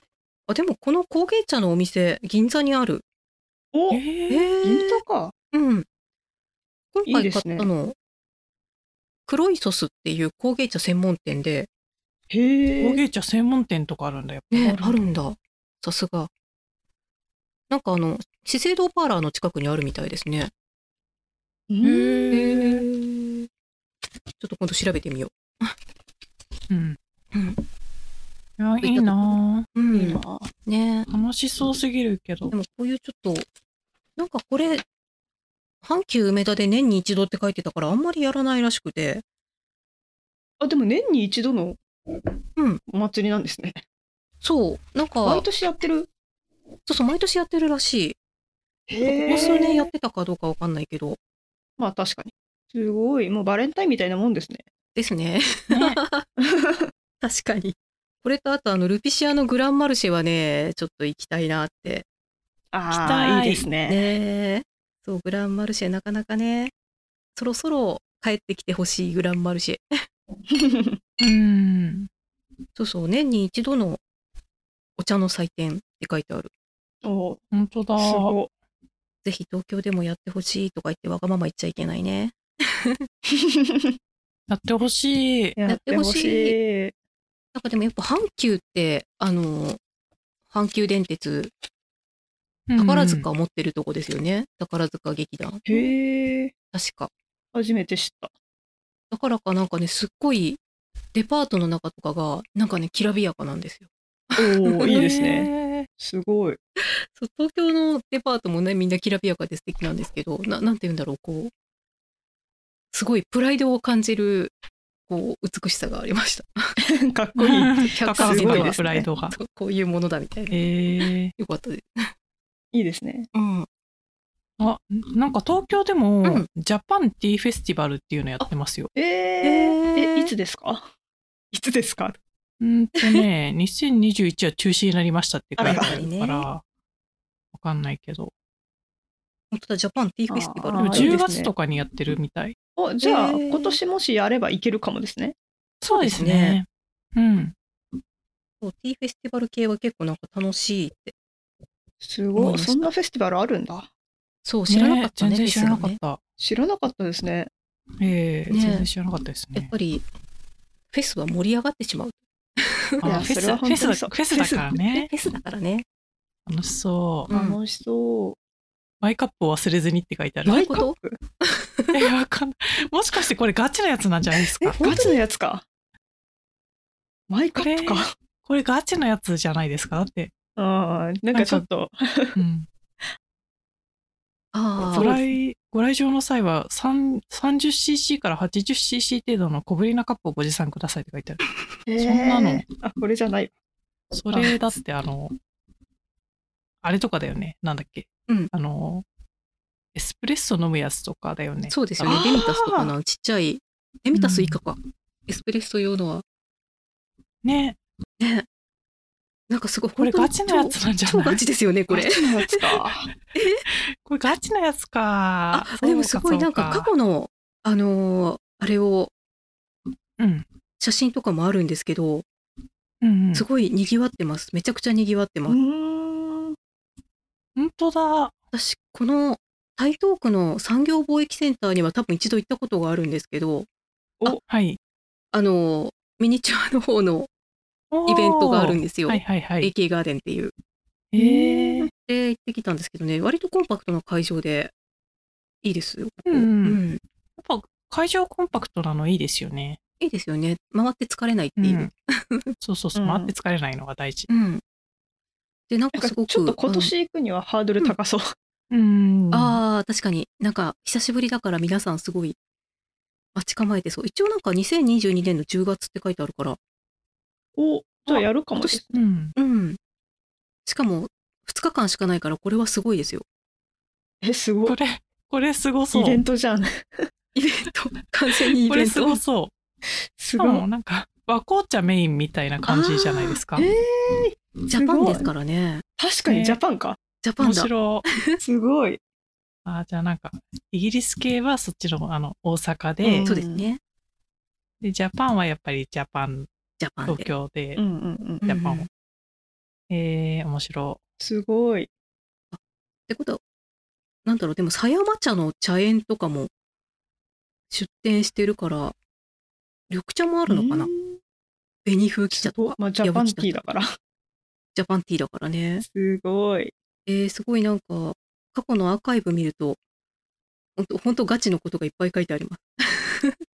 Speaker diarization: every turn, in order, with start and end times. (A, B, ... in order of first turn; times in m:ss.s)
0:00.5-0:03.0 A
0:03.7-0:04.0 B
0:03.9-0:04.5 C
0:04.3-0:05.0 A
0:04.6-0:05.3 B
0:05.5-0:05.8 A
0:06.9-0:08.0 A
0:07.1-0:07.7 B
0:09.3-0:11.7 A
0:12.3-0:13.0 B
0:12.8-0:15.0 C
0:14.5-0:16.3 A
0:17.7-0:20.5 A
0:21.7-0:22.8 B
0:21.8-0:22.6 C
0:22.3-0:23.5 A
0:24.4-0:25.7 A
0:26.7-0:27.0 C
0:27.3-0:27.6 A
0:28.6-0:29.7 C
0:28.8-0:31.1 A
0:29.9-0:30.5 B
0:31.1-0:32.5 C
0:32.5-0:33.5 A
0:34.2-0:34.8 A
0:35.8-0:39.2 A
0:40.6-0:41.8 B
0:42.9-0:43.8 B
0:44.4-0:45.4 A
0:45.2-0:46.1 B
0:46.8-0:48.2 A
0:48.9-0:49.9 B
0:49.0-0:51.2 A
0:49.2-0:49.7 C
0:51.8-0:54.6 B
0:54.9-0:56.3 A
0:55.7-0:56.0 C
0:56.4-0:56.9 B
0:57.2-1:02.0 A
1:02.7-1:04.0 B
1:02.9-1:03.6 C
1:03.9-1:06.7 A
1:07.3-1:09.8 A
1:10.5-1:11.0 B
1:11.2-1:12.1 C
1:12.8-1:14.0 A
1:15.0-1:16.5 A
1:17.0-1:17.4 B
1:17.5-1:18.4 C
1:18.0-1:18.5 B
1:19.2-1:23.1 A
1:23.3-1:23.9 B
1:24.5-1:25.6 C
1:25.6-1:26.9 B
1:25.7-1:26.6 A
1:27.5-1:29.8 A
1:30.5-1:31.5 A
1:32.7-1:33.3 C
1:32.8-1:35.9 A
1:35.7-1:36.5 B
1:36.7-1:37.1 A
1:37.5-1:38.3 B
1:39.1-1:40.6 A
1:41.1-1:45.0 A
1:44.4-1:46.6 B
1:44.9-1:45.9 C
1:47.1-1:51.5 A
1:52.9-1:54.5 A
1:55.1-1:56.7 A
1:56.8-1:59.1 B
1:57.4-1:59.4 C
1:57.9-2:00.6 A
2:00.5-2:01.3 C
2:01.3-2:02.1 A
2:02.7-2:03.3 B
2:03.3-2:03.7 A
2:04.6-2:08.9 C
2:08.9-2:10.9 B
2:09.4-2:10.3 A
2:11.5-2:12.2 B
2:12.6-2:16.6 C
2:15.6-2:16.0 B
2:15.6-2:16.5 A
2:17.5-2:18.3 C
2:19.5-2:21.2 A
2:20.3-2:21.5 B
2:20.8-2:22.6 C
2:22.8-2:25.4 B
2:23.0-2:23.8 A
2:25.8-2:27.6 C
2:25.9-2:26.6 A
2:28.6-2:31.1 A
2:32.0-2:33.9 B
2:32.4-2:32.9 A
2:34.4-2:36.0 A
2:34.7-2:36.2 C
2:36.4-2:37.5 B
2:38.0-2:39.7 C
2:38.5-2:38.9 A
2:39.5-2:40.0 A
2:40.9-2:43.3 A
2:43.0-2:45.1 C
2:43.0-2:44.7 B
2:44.8-2:45.8 A
2:46.4-2:47.3 C
2:47.3-2:47.6 A
2:47.3-2:48.4 B
2:49.0-2:50.7 C
2:50.4-2:51.2 B
2:50.5-2:52.0 A
2:51.9-2:54.8 C
2:54.6-2:55.6 B
2:54.8-2:55.2 A
2:57.3-2:58.1 B
2:57.5-3:00.3 C
3:00.6-3:02.4 B
3:01.3-3:01.6 C
3:02.4-3:02.7 C
3:04.5-3:05.1 A
3:04.8-3:05.3 B
3:04.9-3:11.4 C
3:11.9-3:13.5 B
3:12.0-3:12.6 C
3:14.1-3:15.3 C
3:16.8-3:19.0 C
3:19.9-3:22.4 C
3:21.7-3:26.2 A
3:22.0-3:22.9 B
3:24.1-3:24.6 C
3:27.4-3:27.8 C
3:28.2-3:28.4 A
3:29.5-3:32.8 A
3:30.0-3:31.4 C
3:31.9-3:33.1 B
3:33.3-3:33.6 A
3:33.7-3:36.9 C
3:35.5-3:39.1 A
3:40.2-3:40.4 C
3:40.8-3:42.2 A
3:43.0-3:43.4 C
3:43.3-3:45.6 A
3:45.5-3:46.6 B
3:47.6-3:48.3 C
3:48.5-3:53.7 A
3:54.5-3:54.8 C
3:55.3-3:57.3 A
3:57.9-3:59.7 C
3:58.1-4:00.5 A
4:01.1-4:01.9 C
4:01.2-4:04.7 A
4:05.6-4:07.0 A
4:06.2-4:06.8 C
4:07.4-4:09.8 C
4:10.0-4:12.5 A
4:11.6-4:11.9 C
4:12.6-4:14.3 C
4:13.0-4:13.3 B
4:14.3-4:14.6 A
4:15.7-4:16.9 A
4:15.9-4:18.3 B
4:18.7-4:19.6 C
4:19.3-4:22.4 A
4:23.3-4:26.6 A
4:27.6-4:29.0 B
4:28.1-4:28.8 A
4:28.9-4:29.3 C
4:29.4-4:29.8 A
4:30.6-4:33.2 A
4:34.2-4:34.8 B
4:34.6-4:36.2 C
4:35.9-4:37.1 B
4:37.3-4:39.2 A
4:38.6-4:39.5 C
4:40.2-4:40.6 B
4:40.4-4:43.6 C
4:42.7-4:43.3 A
4:43.6-4:45.3 B
4:44.7-4:45.8 A
4:46.0-4:47.0 B
4:46.2-4:46.6 C
4:47.2-4:48.4 A
4:47.4-4:48.0 C
4:48.4-4:49.0 B
4:49.6-4:53.3 C
4:53.0-4:53.7 B
4:53.2-4:53.8 A
4:54.8-4:56.5 C
4:56.8-4:57.3 A
4:57.1-4:57.8 C
4:57.8-4:58.4 B
4:58.4-4:58.9 A
4:58.4-4:58.9 C
4:59.9-5:01.0 C
5:01.2-5:01.9 B
5:02.5-5:03.4 A
5:04.2-5:06.5 A
5:07.7-5:09.0 A
5:09.9-5:10.9 A
5:10.5-5:11.2 B
5:11.8-5:13.6 A
5:12.3-5:13.9 B
5:14.7-5:15.8 A
5:15.8-5:16.7 B
5:17.1-5:19.8 A
5:20.8-5:23.4 A